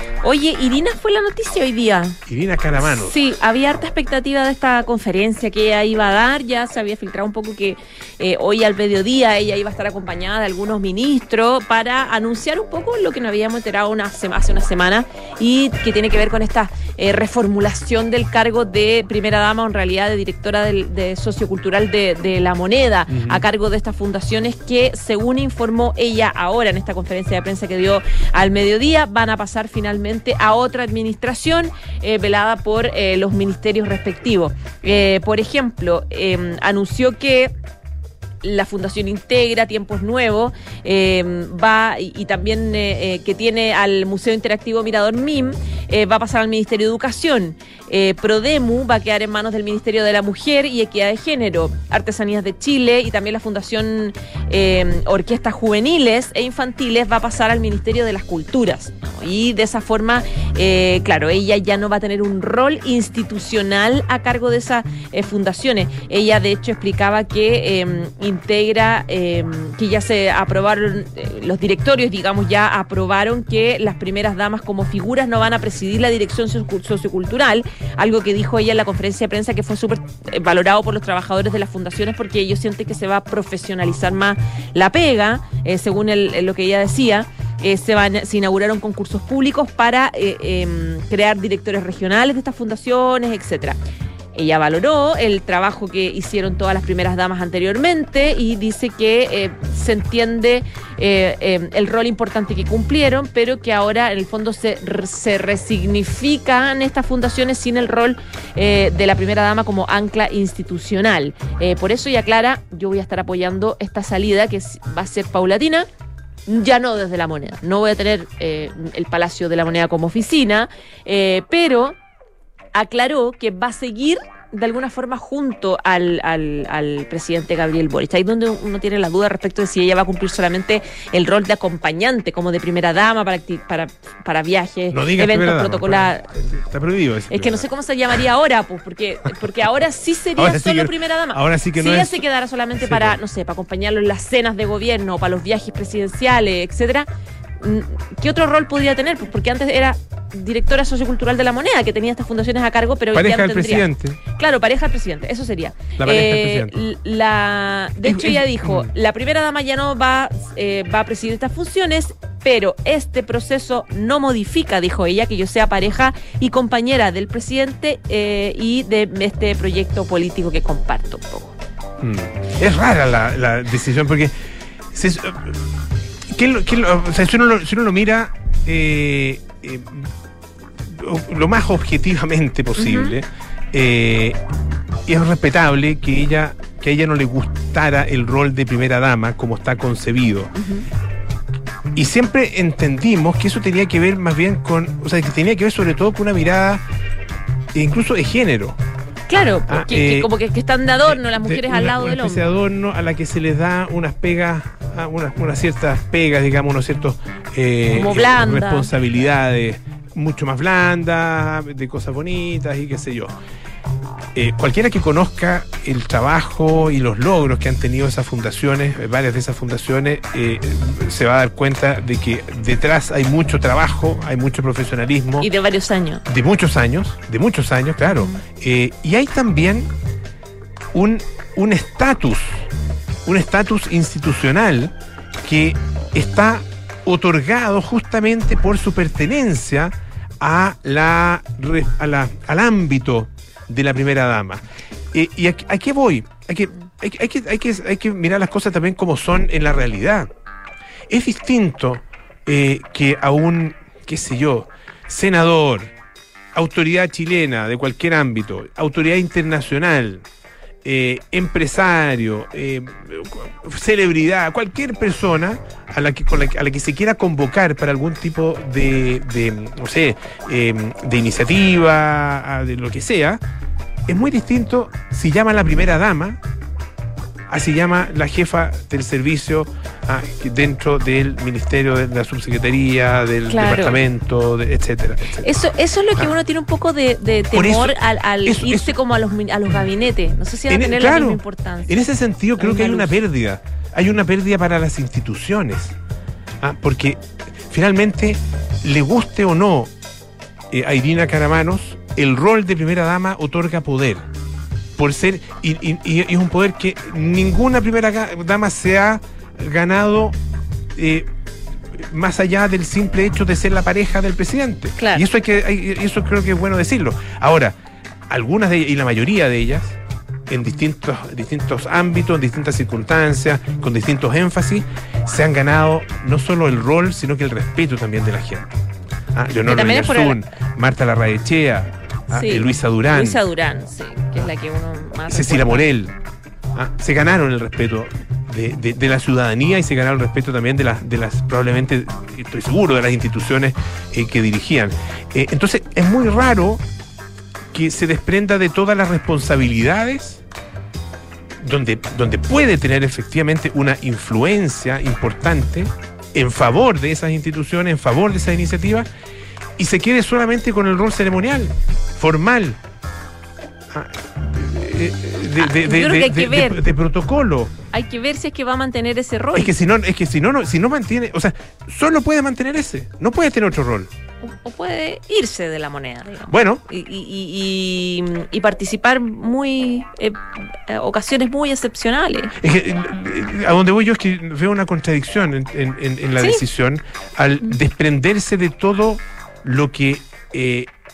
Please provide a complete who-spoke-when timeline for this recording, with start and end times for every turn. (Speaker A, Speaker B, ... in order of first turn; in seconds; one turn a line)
Speaker A: 0.2-2.2
Speaker B: 2.3-3.2
Speaker A: 2.8-37.5
Speaker B: 23.1-23.4
Speaker A: 38.4-93.8
Speaker A: 94.3-115.9
Speaker A: 116.5-122.0
Speaker A: 122.8-136.3
Speaker B: 134.9-137.7
Speaker A: 137.3-147.1
Speaker B: 140.4-142.2
Speaker B: 142.8-143.2
Speaker A: 147.6-171.6
Speaker B: 153.1-154.2
Speaker B: 156.0-156.7
Speaker B: 158.0-158.9
Speaker B: 172.0-174.3
Speaker B: 174.9-175.6
Speaker B: 176.3-180.1
Speaker B: 180.9-184.4
Speaker A: 182.8-183.2
Speaker B: 185.1-190.5
Speaker A: 190.6-190.9
Speaker B: 191.9-196.8
Speaker B: 197.7-198.8
Speaker A: 199.3-202.5
Speaker B: 199.7-200.3
Speaker B: 201.1-213.3
Speaker A: 207.9-208.9
Speaker B: 214.3-225.5
Speaker A: 225.4-226.2
Speaker B: 226.3-229.9
Speaker A: 228.0-228.4
Speaker B: 230.9-232.7
Speaker B: 233.3-234.9
Speaker B: 235.4-244.6
Speaker B: 245.1-250.3
Speaker B: 251.1-255.9
Speaker B: 256.5-260.2
Speaker B: 260.8-273.4
Speaker B: 274.1-276.4
Speaker B: 277.5-285.4
Speaker A: 283.5-284.0
Speaker A: 285.4-292.0
Speaker B: 287.5-287.9
Speaker B: 288.5-288.9
Speaker B: 290.7-295.9
Speaker A: 292.6-293.2
Speaker B: 296.6-299.9
Speaker B: 300.7-304.2
Speaker B: 305.0-310.3
Speaker B: 310.9-311.3
Speaker B: 312.1-317.8
Speaker A: 315.0-315.2
Speaker B: 318.3-320.0
Speaker B: 320.5-328.7
Speaker B: 329.3-333.4
Speaker A: 329.7-330.4
Speaker A: 332.3-335.9
Speaker B: 335.3-336.1
Speaker B: 336.8-346.8
Speaker B: 347.7-350.4
Speaker B: 351.6-359.1
Speaker B: 359.8-362.8
Speaker B: 363.9-367.7
Speaker A: 365.6-366.8
Speaker A: 367.9-369.7
Speaker B: 369.6-374.1
Speaker A: 374.4-382.5
Speaker B: 376.5-376.8
Speaker B: 382.6-390.9
Speaker A: 386.4-386.6